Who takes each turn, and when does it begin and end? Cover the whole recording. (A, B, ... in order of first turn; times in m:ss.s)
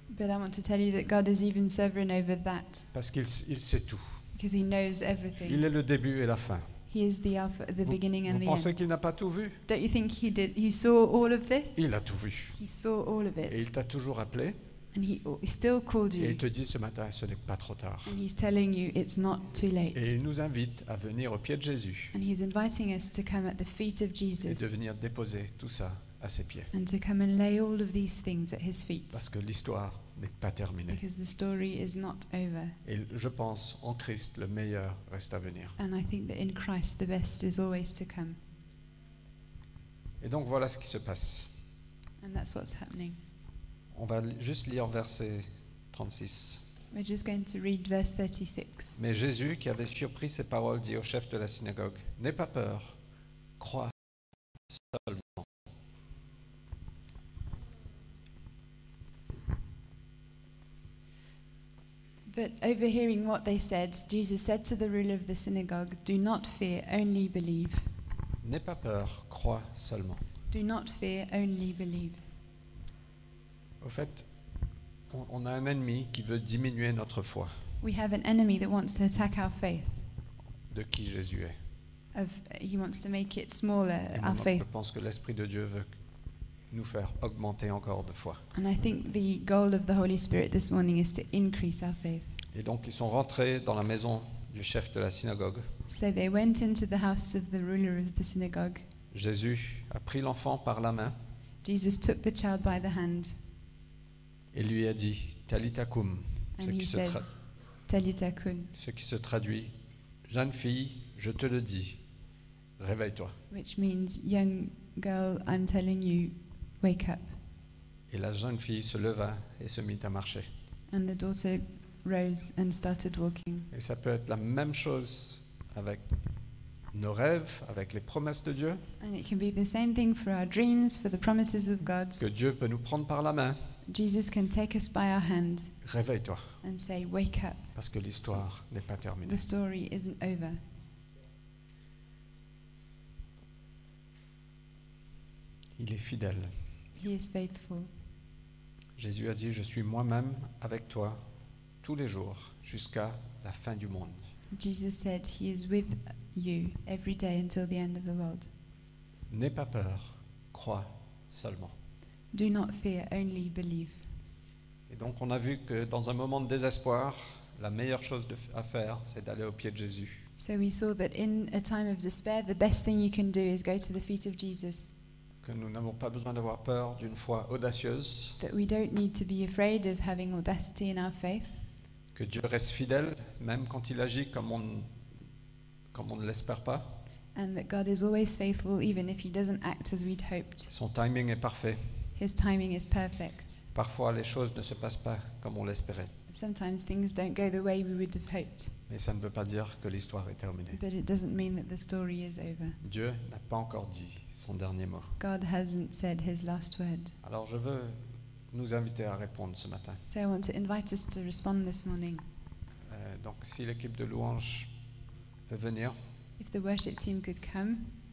0:00.1-0:02.9 A
0:02.9-0:04.2 B
0:04.3-0:05.6 A
0:05.4-0:06.7 B
0:06.9-0:08.8 A
0:07.8-0:09.6 B
0:09.7-0:11.8 A
0:11.8-0:12.6 B
0:12.5-0:13.7 A
0:13.5-0:14.6 B
0:14.9-0:16.4 A
0:16.2-0:18.2 B
0:18.0-0:20.1 A
0:19.9-0:22.1 B
0:22.1-0:24.7 A
0:24.4-0:26.7 B
0:26.7-0:29.2 A
0:29.1-0:31.0 B
0:30.9-0:32.8 A
0:32.8-0:35.8 B
0:35.8-0:38.4 A
0:40.2-0:41.5 B
0:42.2-0:43.2 A
0:43.9-0:46.6 B
0:46.9-0:49.0 A
0:49.0-0:53.0 B
0:53.6-0:53.9 B
0:54.7-0:55.5 B
1:02.2-1:07.9 A
1:08.4-1:10.2 B
1:10.5-1:12.2 A
1:13.8-1:14.3 B
1:15.1-1:17.5 B
1:17.8-1:20.0 A
1:20.7-1:21.6 B
1:22.1-1:24.6 A
1:24.1-1:25.9 B
1:26.7-1:28.4 B
1:28.5-1:32.4 A
1:32.5-1:35.7 B
1:35.9-1:38.8 A
1:39.1-1:41.1 B
1:41.6-1:43.4 A
1:44.5-1:47.3 B
1:46.6-1:48.7 A
1:48.7-1:49.7 B
1:50.3-1:52.0 B
1:52.8-1:53.4 B
1:53.5-1:57.4 A
1:58.1-2:00.5 B
2:00.9-2:03.7 A
2:03.7-2:06.0 B
2:06.9-2:08.8 B
2:09.0-2:12.2 A
2:12.2-2:13.6 B
2:13.9-2:15.7 A
2:15.8-2:16.6 B
2:16.6-2:17.7 A
2:17.7-2:19.4 B
2:19.2-2:20.6 A
2:25.8-2:26.5 B
2:27.0-2:27.9 A
2:29.0-2:31.2 B
2:31.8-2:34.2 B
2:34.5-2:38.5 A
2:39.3-2:41.7 B
2:42.3-2:44.0 A
2:44.9-2:50.2 B
2:50.4-2:54.9 A
2:55.4-2:58.4 B
2:58.4-3:01.6 A
3:02.1-3:04.9 B
3:05.9-3:06.9 B
3:07.3-3:10.7 A
3:10.7-3:11.8 B
3:12.2-3:13.6 A
3:13.7-3:16.1 B
3:16.3-3:18.7 A
3:18.9-3:20.8 B
3:20.7-3:22.8 A
3:22.8-3:25.1 B
3:25.2-3:27.1 A
3:27.2-3:30.0 B
3:30.0-3:32.2 A
3:32.9-3:34.7 B
3:35.5-3:36.0 B
3:36.4-3:37.9 A